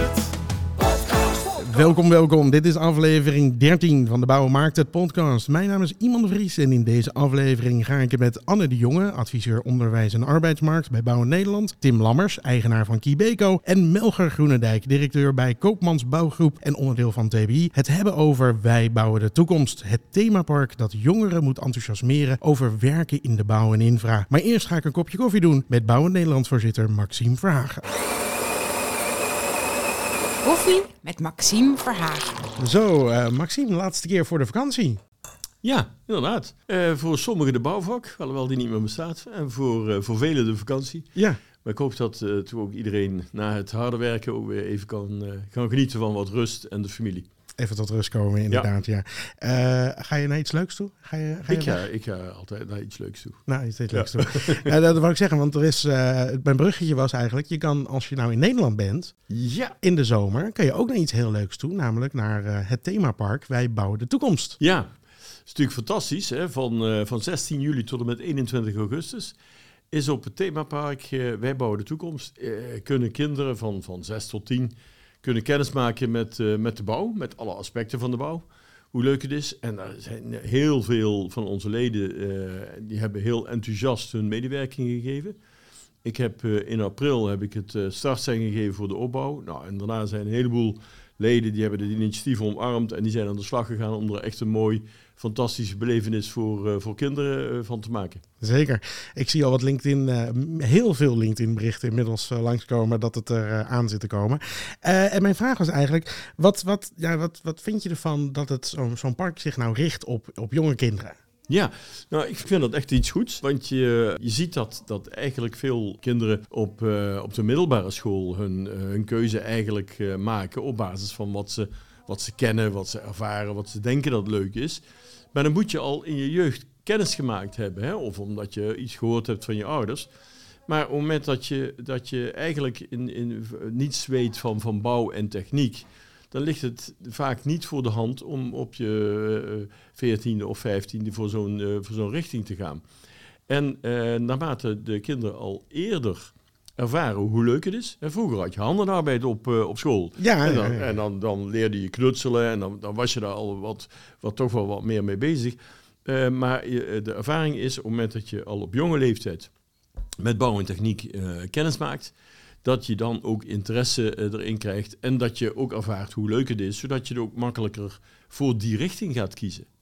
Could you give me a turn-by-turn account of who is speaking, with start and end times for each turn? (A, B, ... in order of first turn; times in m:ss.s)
0:01.6-0:27.8 A
0:30.4-0:32.5 B
0:32.6-0:35.0 A
0:35.6-0:47.3 C
0:41.1-0:41.4 A
0:47.5-0:51.8 A
0:51.5-0:54.7 C
0:53.4-0:59.3 A
0:59.3-0:59.8 C
0:59.8-1:04.6 A
1:04.6-1:25.4 C
1:26.0-1:38.2 C
1:38.4-1:51.2 A
1:51.5-2:22.9 C
2:23.4-2:39.5 C
2:30.2-2:30.8 A
2:40.2-2:49.7 C